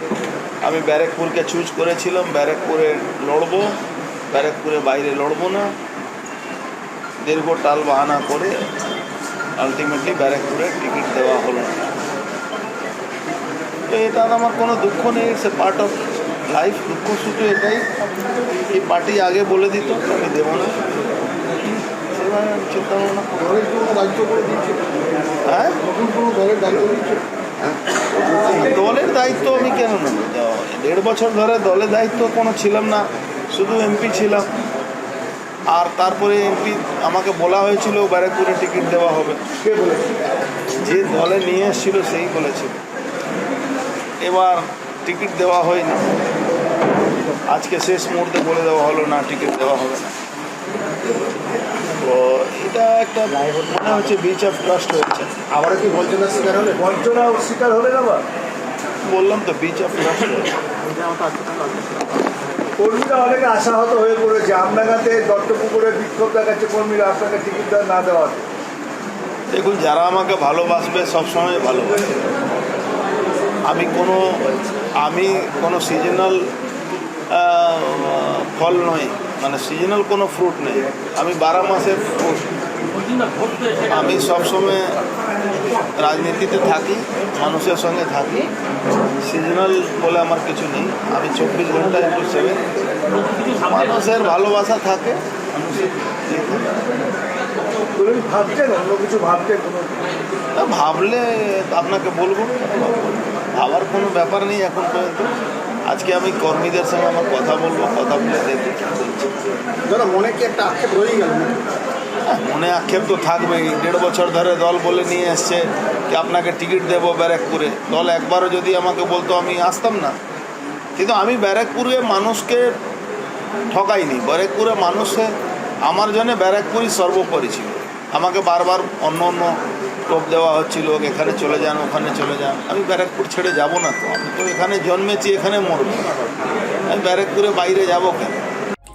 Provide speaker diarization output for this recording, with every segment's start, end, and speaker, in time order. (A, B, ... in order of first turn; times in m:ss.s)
0:00.6-0:03.8 A
0:04.3-0:05.7 A
0:07.2-0:08.6 A
0:09.6-0:11.9 A
0:13.9-0:18.0 A
0:18.7-0:20.8 A
0:21.9-0:23.4 A
0:23.4-0:24.9 B
0:25.4-0:25.8 A
0:25.8-0:27.2 B
0:28.3-0:34.5 A
0:35.7-0:39.4 A
0:39.6-0:40.1 C
0:40.8-0:42.8 A
0:44.2-0:46.1 A
0:47.5-0:50.1 A
0:51.8-0:55.4 A
0:55.5-0:56.8 B
0:56.8-0:58.2 C
0:59.1-1:00.5 A
1:02.8-1:08.4 C
1:09.5-1:12.1 A
1:13.6-1:14.4 A
1:15.0-1:16.5 A
1:17.3-1:22.6 A
1:23.7-1:25.0 A
1:26.0-1:28.5 A
1:29.2-1:32.6 A
1:33.5-1:35.2 A
1:36.2-1:36.7 A
1:38.0-1:40.0 C
1:40.6-1:45.3 A
1:45.9-1:49.4 A
1:49.8-1:51.6 B
1:52.3-2:00.2 A
2:01.0-2:02.7 A
2:03.7-2:05.3 A
2:05.8-2:09.6 A
2:10.1-2:16.1 A
2:16.9-2:18.4 A